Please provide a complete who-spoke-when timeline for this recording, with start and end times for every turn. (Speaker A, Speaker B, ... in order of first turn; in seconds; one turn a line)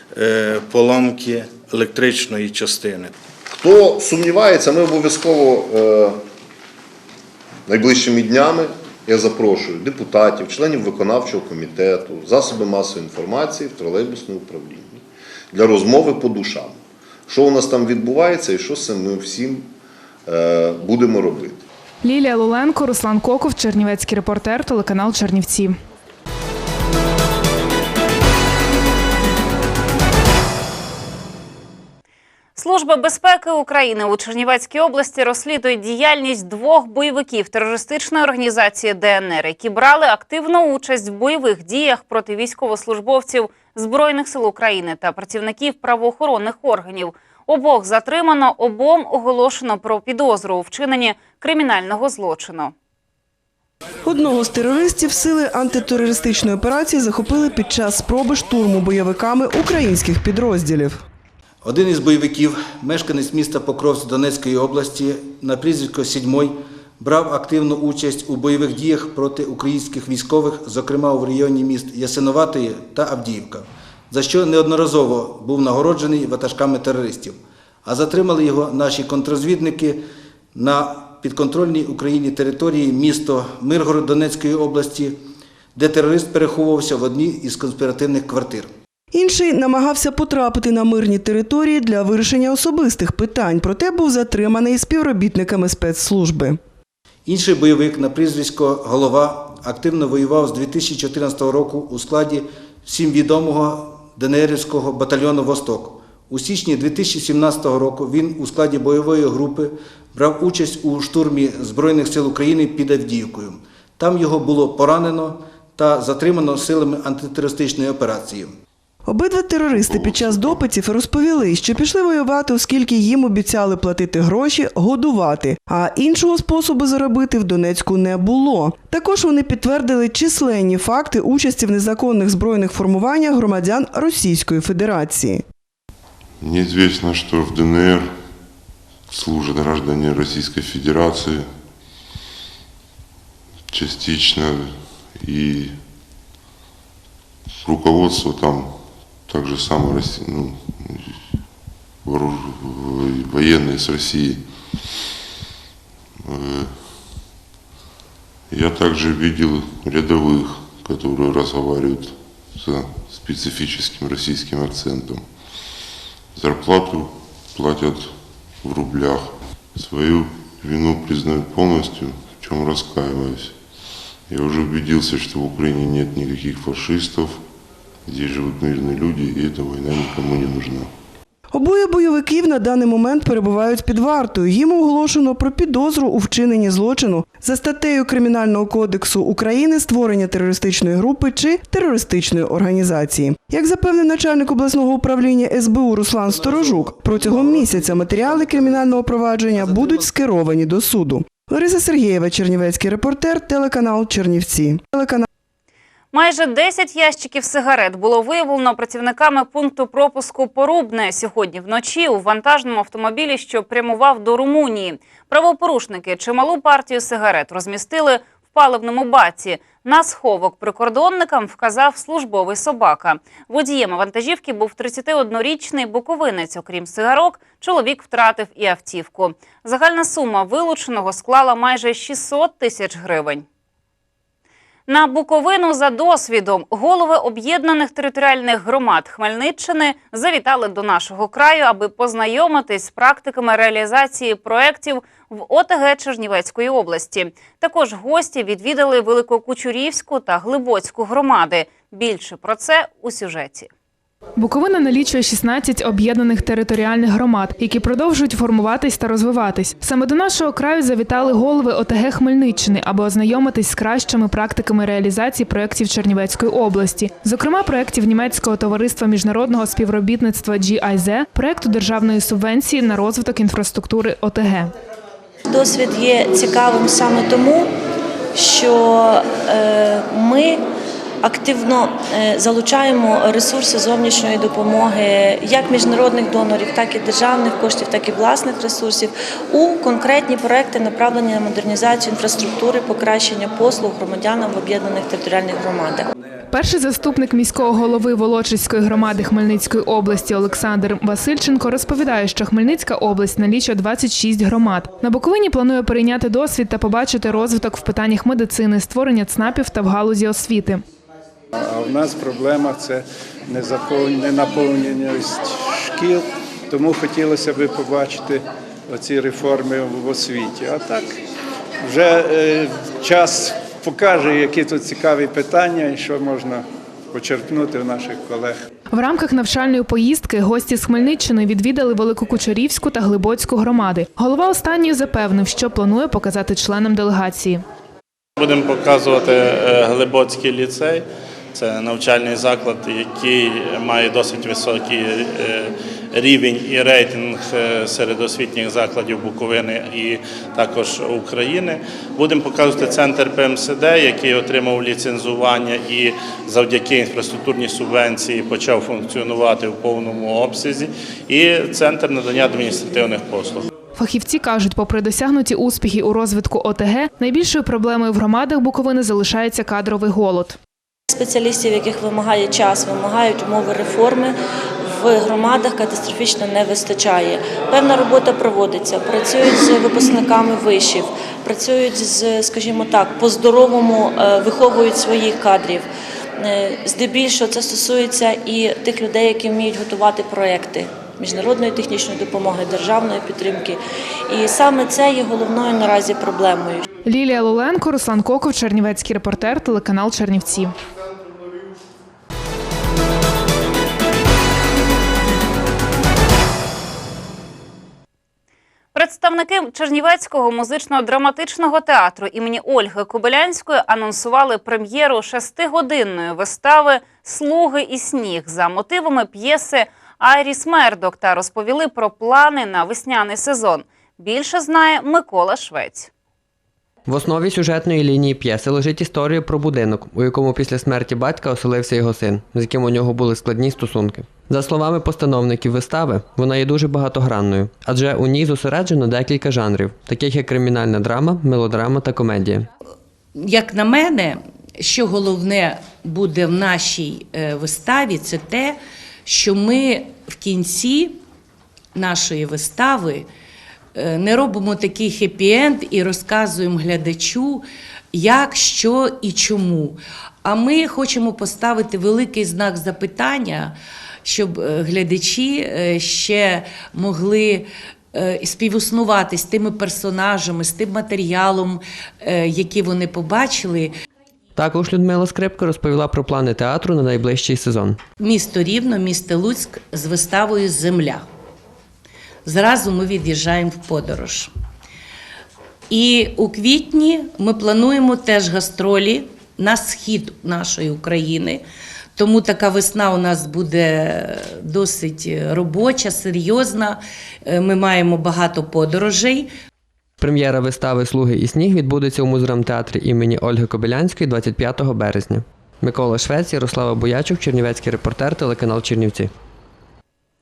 Speaker A: 0.1-3.1
Speaker B: 3.6-6.2
Speaker B: 7.7-15.0
Speaker B: 15.5-16.8
Speaker B: 17.3-19.7
Speaker B: 20.3-21.6
Speaker C: 22.0-25.7
Speaker D: 32.6-52.7
Speaker E: 54.0-61.0
Speaker F: 61.6-80.0
Speaker F: 80.5-85.2
Speaker F: 85.8-88.7
Speaker E: 89.1-96.6
Speaker F: 97.3-118.5
Speaker E: 119.1-135.4
Speaker G: 136.4-138.1
Speaker G: 139.1-141.5
Speaker G: 143.7-145.8
Speaker G: 147.6-151.2
Speaker G: 152.0-155.0
Speaker G: 156.2-157.1
Speaker G: 158.5-165.6
Speaker G: 166.3-173.6
Speaker G: 174.3-177.4
Speaker G: 178.1-180.9
Speaker E: 181.5-205.3
Speaker F: 196.3-200.2
Speaker D: 206.1-233.4
Speaker D: 234.9-253.7
Speaker C: 254.4-274.7
Speaker H: 275.5-277.7
Speaker H: 278.4-280.6
Speaker H: 281.2-296.1
Speaker C: 296.5-310.8
Speaker I: 311.6-318.4
Speaker I: 318.9-321.1
Speaker I: 321.9-326.6
Speaker I: 327.1-328.6
Speaker C: 328.9-337.6
Speaker J: 338.4-363.7
Speaker C: 364.0-370.6
Speaker H: 371.1-396.9
Speaker C: 397.1-400.8
Speaker D: 408.9-426.1
Speaker K: 427.1-442.7
Speaker L: 443.4-451.2
Speaker L: 451.9-453.3
Speaker L: 453.9-473.9
Speaker K: 474.6-478.0
Speaker L: 478.2-481.3
Speaker L: 482.4-484.5
Speaker L: 485.9-491.6
Speaker L: 492.2-499.5
Speaker K: 500.2-509.3